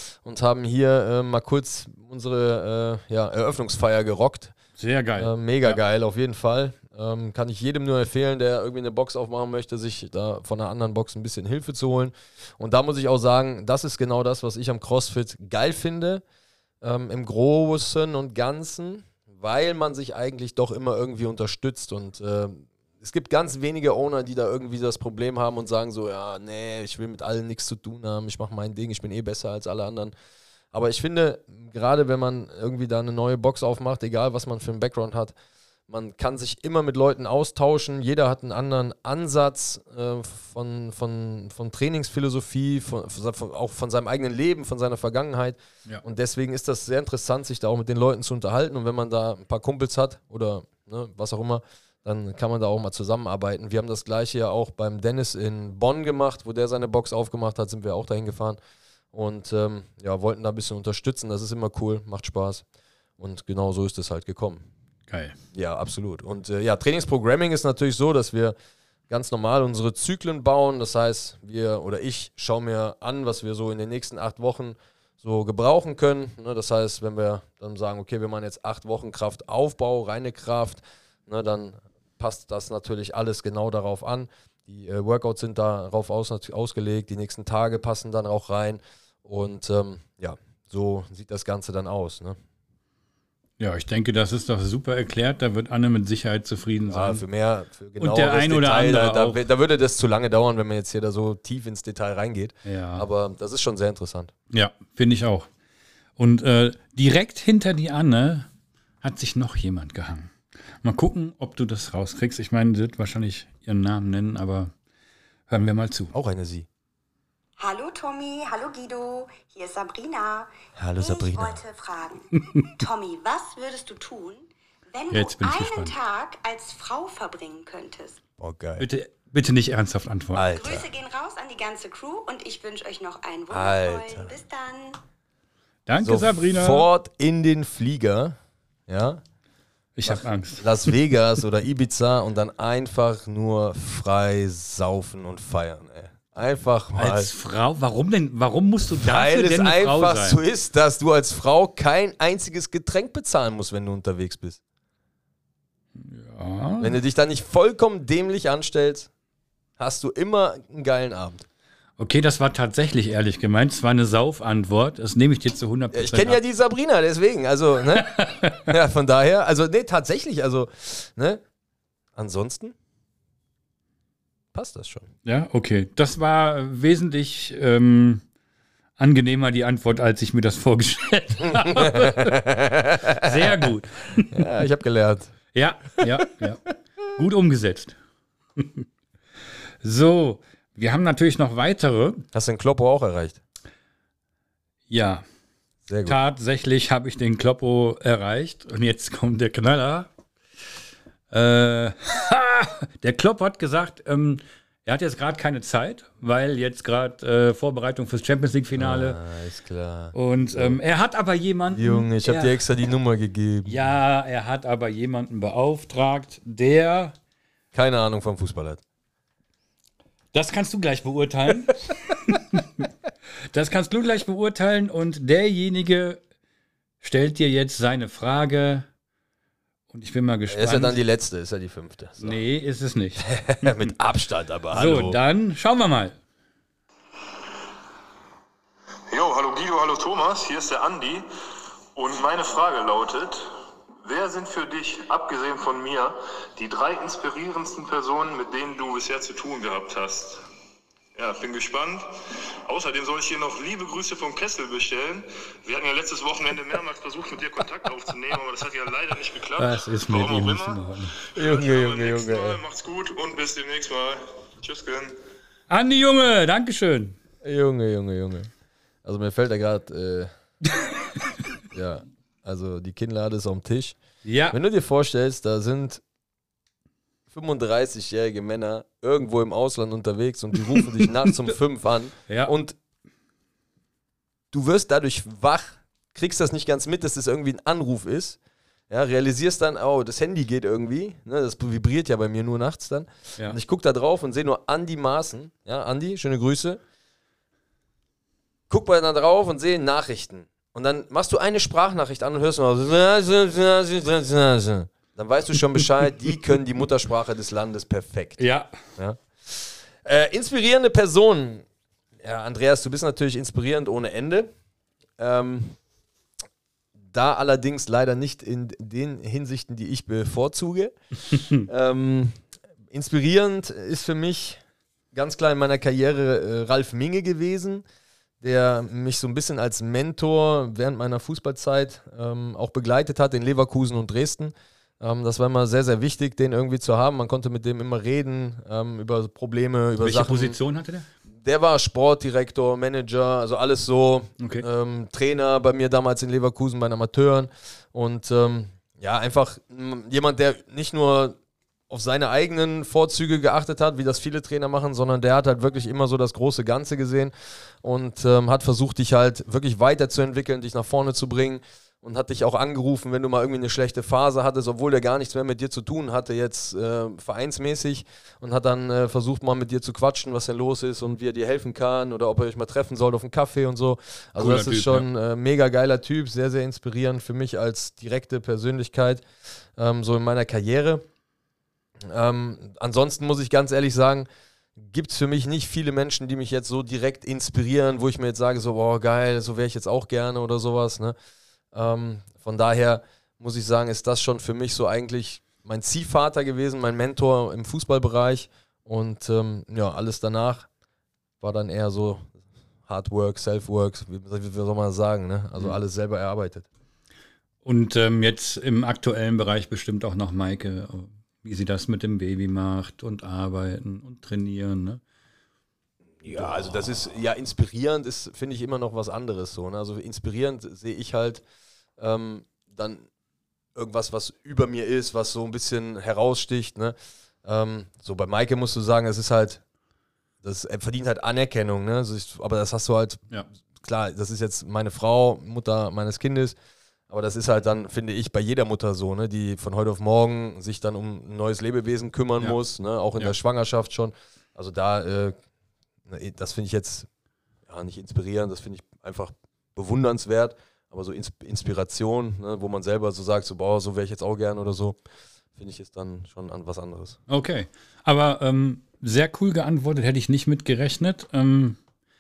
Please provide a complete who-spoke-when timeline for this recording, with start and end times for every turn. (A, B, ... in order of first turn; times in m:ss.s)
0:00.2-0:04.5 A
0:04.8-0:05.8 B
0:05.2-0:16.2 A
0:16.8-0:30.1 A
0:30.7-0:35.3 A
0:35.9-0:58.6 A
0:59.1-1:02.6 A
1:03.2-1:04.7 A
1:05.1-1:05.4 B
1:05.5-1:08.6 A
1:09.1-1:32.4 A
1:33.6-1:37.2 B
1:36.9-1:44.3 A
1:38.0-1:39.4 B
1:42.6-1:43.1 B
1:44.5-1:45.5 B
1:46.2-1:48.5 B
1:49.0-1:54.7 B
1:55.5-1:56.2 B
1:56.1-1:56.7 A
1:57.6-2:08.2 C
2:00.8-2:01.6 A
2:05.1-2:06.0 B
2:08.4-2:08.9 A
2:08.8-2:10.5 B
2:10.3-2:10.9 A
2:10.5-2:15.0 C
2:13.5-2:14.3 A
2:15.9-2:16.9 B
2:16.0-2:18.4 A
2:18.9-2:19.2 A
2:20.0-2:20.9 B
2:20.1-2:27.3 A
2:27.0-2:30.4 B
2:29.0-2:34.6 A
2:36.0-2:37.0 B
2:36.8-2:39.1 A
2:39.8-2:41.5 A
2:42.0-2:46.4 B
2:45.9-2:51.4 A
2:48.0-2:48.7 B
2:52.2-2:52.8 A
2:54.5-2:55.1 A
2:55.2-2:58.2 B
2:59.0-3:02.4 B
3:01.5-3:03.6 A
3:03.2-3:04.4 B
3:04.2-3:05.3 A
3:05.5-3:08.0 B
3:08.6-3:08.9 B
3:09.8-3:12.2 B
3:12.3-3:13.4 A
3:14.9-3:15.2 B
3:15.9-3:16.2 A
3:16.1-3:20.1 B
3:21.3-3:29.2 B
3:28.8-3:30.8 A
3:30.1-3:32.6 B
3:31.7-3:33.8 A
3:33.6-3:37.2 B
3:37.7-3:38.8 A
3:40.3-3:42.9 B
3:43.5-3:46.2 B
3:47.0-3:48.9 B
3:49.9-3:51.0 B
3:50.5-3:52.4 A
3:52.2-3:53.9 B
3:53.2-3:55.2 A
3:54.7-3:56.2 B
3:59.1-4:01.2 D
4:02.0-4:10.4 D
4:11.2-4:25.2 D
4:19.6-4:21.2 B
4:21.4-4:22.6 A
4:25.7-4:27.2 B
4:27.4-4:28.5 A
4:29.0-4:30.3 A
4:31.7-4:34.0 A
4:34.2-4:34.6 B
4:34.5-4:36.0 A
4:37.3-4:42.8 A
4:42.3-4:42.5 B
4:44.5-4:48.4 A
4:48.9-4:56.8 A
4:58.7-5:08.4 A
5:08.4-5:08.7 B
5:09.0-5:11.7 A
5:12.2-5:14.5 A
5:15.2-5:15.8 A
5:17.0-5:22.4 A
5:22.9-5:24.6 A
5:25.1-5:27.9 A
5:28.4-5:40.6 A
5:40.0-5:41.1 B
5:41.4-5:51.4 A
5:44.4-5:44.7 B
5:51.9-6:19.2 A
6:14.4-6:15.1 B
6:19.8-6:21.1 A
6:22.0-6:31.2 A
6:31.7-6:40.7 A
6:41.4-6:46.7 A
6:47.6-6:55.0 B
6:56.2-7:01.4 A
6:56.2-6:56.9 B
7:02.0-7:03.1 A
7:03.8-7:09.6 A
7:10.4-7:13.2 A
7:13.8-7:16.6 A
7:17.1-7:25.4 A
7:26.1-7:27.1 A
7:27.7-7:35.0 A
7:35.6-7:37.2 A
7:37.3-7:41.8 B